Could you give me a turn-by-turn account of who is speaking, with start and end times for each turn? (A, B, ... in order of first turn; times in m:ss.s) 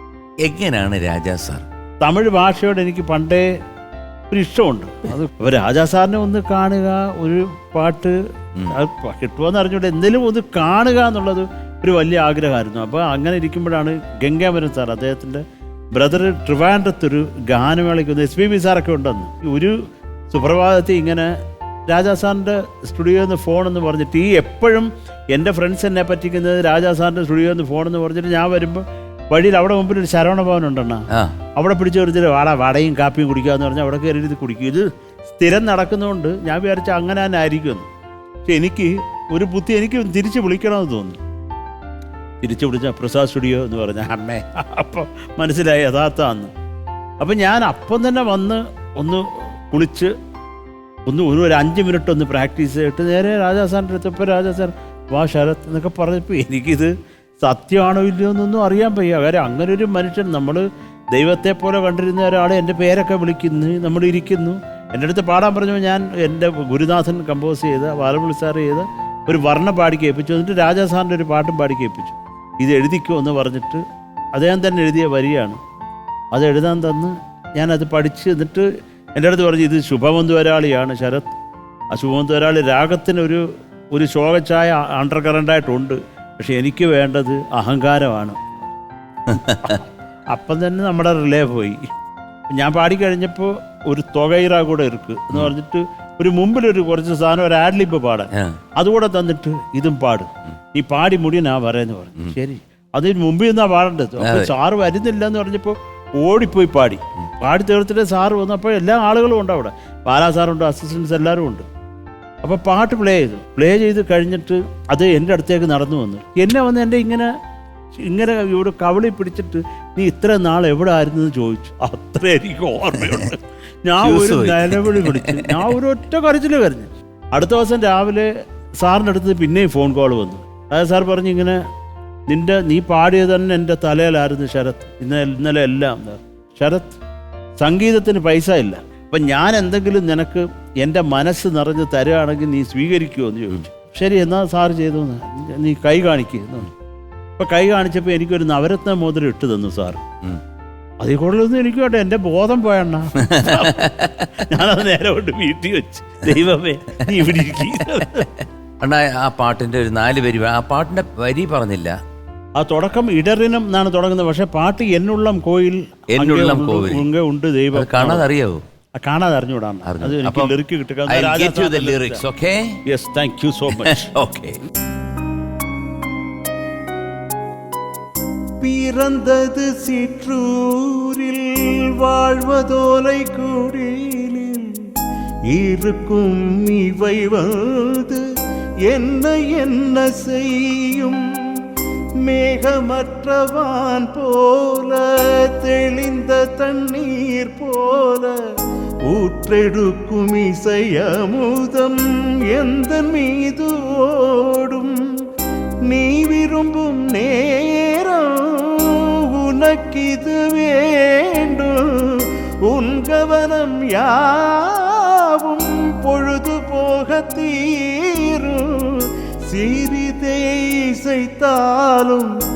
0:00.4-0:01.6 A
0:02.0-0:03.5 B
0:04.3-0:08.2 B
0:08.7-0:15.4 B
0:15.9-0:19.8 B
0:20.3-0:21.3 B
0:21.9-0:31.0 B
0:31.6-0:37.9 B
0:38.5-0:41.2 B
0:42.4-0:46.5 B
0:47.2-0:50.1 B
0:51.1-1:13.8 B
1:14.4-1:15.6 B
1:16.3-1:21.3 B
1:21.9-1:28.4 B
1:29.3-1:29.7 A
1:29.3-1:31.8 B
1:32.5-1:51.6 B
1:38.3-1:38.6 A
1:44.2-1:44.5 A
1:52.4-1:57.3 B
1:57.9-2:08.3 B
2:04.0-2:05.6 A
2:08.8-2:11.6 B
2:12.3-2:17.0 B
2:17.6-2:26.7 B
2:27.4-2:30.0 B
2:31.0-2:38.3 B
2:33.2-2:34.2 A
2:37.8-2:38.0 A
2:38.8-2:41.9 A
2:42.6-2:48.2 B
2:46.1-2:47.0 A
2:47.7-2:48.6 A
2:49.0-2:52.2 B
2:49.8-2:50.5 A
2:51.1-2:52.7 A
2:52.9-2:54.1 B
2:53.8-2:54.6 A
2:58.6-3:04.9 B
3:05.5-3:08.2 B
3:08.9-3:11.2 B
3:12.2-3:18.3 B
3:19.1-3:24.9 B
3:25.9-3:42.3 B